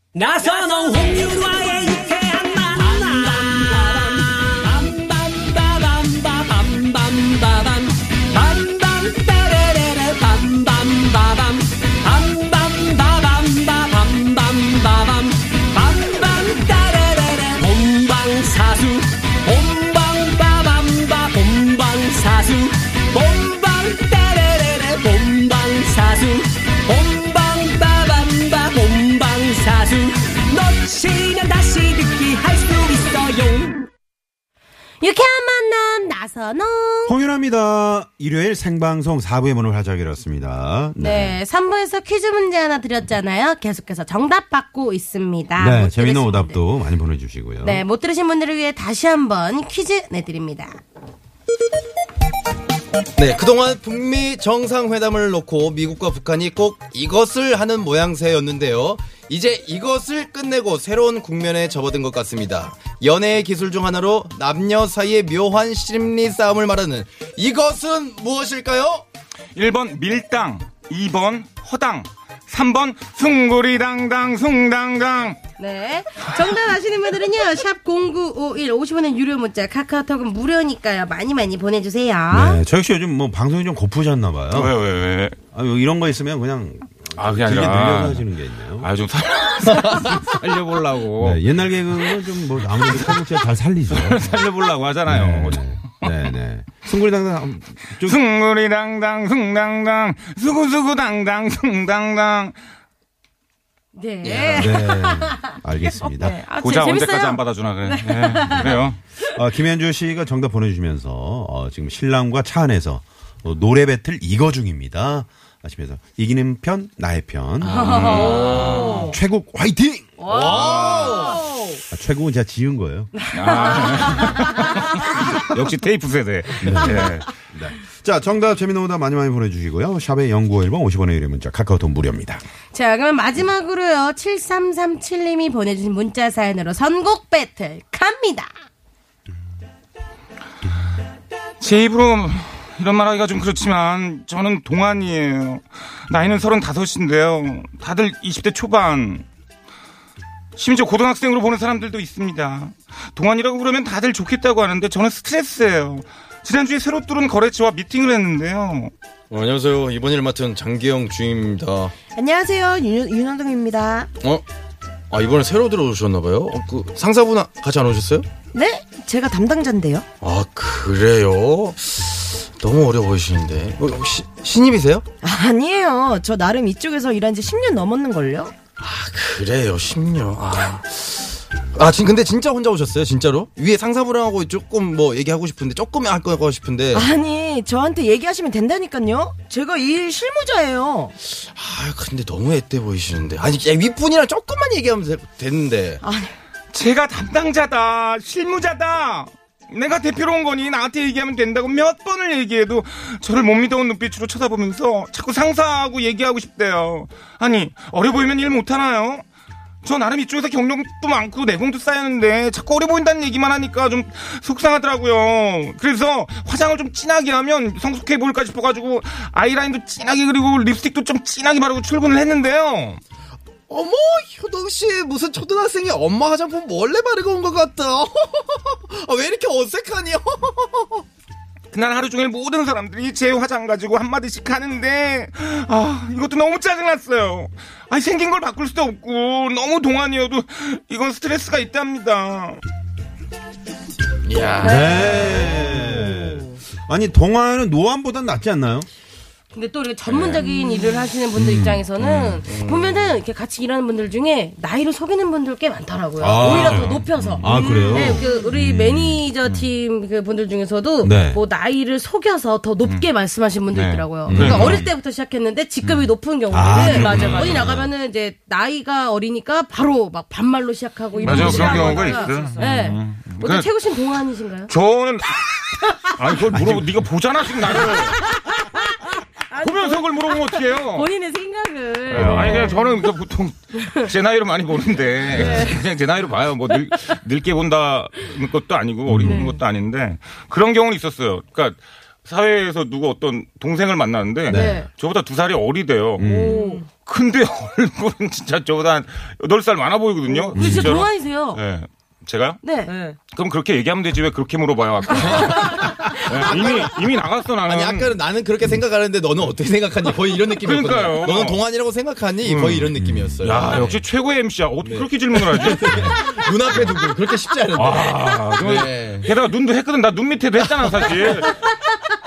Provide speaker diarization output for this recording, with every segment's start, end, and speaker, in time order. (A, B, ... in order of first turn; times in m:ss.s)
0:00.2-0:33.9 A
0:35.0-0:37.2 B
0:37.1-0:41.4 C
0:41.0-0:46.6 B
0:45.6-0:47.8 C
0:47.6-0:50.8 B
0:53.2-1:09.0 D
1:09.6-1:15.4 E
1:15.6-1:22.6 B
1:22.3-1:24.8 C
1:24.5-1:25.4 E
1:25.5-1:28.9 C
1:27.2-1:28.3 E
1:28.8-1:31.4 E
1:31.2-1:34.2 C
1:33.9-1:36.3 E
1:35.1-1:38.2 C
1:38.0-1:42.6 E
1:43.9-1:49.4 B
1:44.2-1:44.8 D
1:44.3-1:46.4 C
1:46.6-1:49.0 E
1:49.3-2:00.2 C
1:57.6-1:59.2 B
1:57.8-1:59.0 E
1:58.0-1:59.0 D
2:00.2-2:01.5 B
2:00.3-2:01.4 D
2:00.6-2:01.1 E
2:01.9-2:03.3 C
2:03.2-2:05.2 B
2:03.3-2:07.3 E
2:06.6-2:12.4 C
2:12.7-2:18.5 B
2:21.6-2:29.3 E
2:30.6-2:38.9 E
2:39.3-2:42.0 D
2:42.2-2:44.1 F
2:45.1-2:48.3 D
2:48.5-2:50.0 F
2:50.2-2:55.1 D
2:55.2-2:58.5 F
2:58.8-3:07.1 D
3:07.0-3:11.1 F
3:11.2-3:16.0 D
3:16.0-3:16.3 F
3:16.7-3:29.2 E
3:29.8-3:43.0 E
3:43.7-3:51.0 D
3:51.7-4:02.6 E
4:04.2-4:05.7 D
4:04.6-4:05.1 B
4:04.6-4:08.9 C
4:09.5-4:34.7 B
4:10.1-4:10.4 D
4:11.4-4:11.9 C
4:12.0-4:12.3 E
4:12.4-4:13.2 D
4:16.2-4:19.2 C
4:16.4-4:17.5 E
4:21.0-4:21.4 C
4:23.7-4:25.0 E
4:24.3-4:24.8 C
4:25.8-4:26.1 E
4:26.5-4:27.9 C
4:26.8-4:27.7 E
4:31.2-4:33.7 E
4:32.0-4:32.3 D
4:34.7-4:38.4 E
4:36.5-4:37.0 C
4:37.9-4:42.9 B
4:39.6-4:41.1 E
4:42.1-4:56.3 E
4:42.1-4:42.8 C
4:43.8-4:44.1 B
4:45.3-4:45.7 C
4:45.3-4:45.8 B
4:49.1-4:49.5 C
4:49.2-4:49.5 B
4:54.5-4:54.9 C
4:54.5-4:54.9 B
4:56.2-4:56.6 C
4:56.2-4:56.8 B
4:56.5-4:56.8 F
4:57.0-5:02.6 E
5:00.5-5:01.6 B
5:00.6-5:01.1 C
5:02.6-5:02.9 B
5:02.9-5:03.2 F
5:03.3-5:08.2 E
5:05.2-5:07.0 D
5:07.6-5:14.0 D
5:10.6-5:11.6 E
5:12.4-5:12.9 E
5:12.9-5:13.6 C
5:13.4-5:16.1 E
5:14.8-5:19.3 D
5:15.9-5:16.2 C
5:17.8-5:21.6 E
5:21.4-5:22.1 B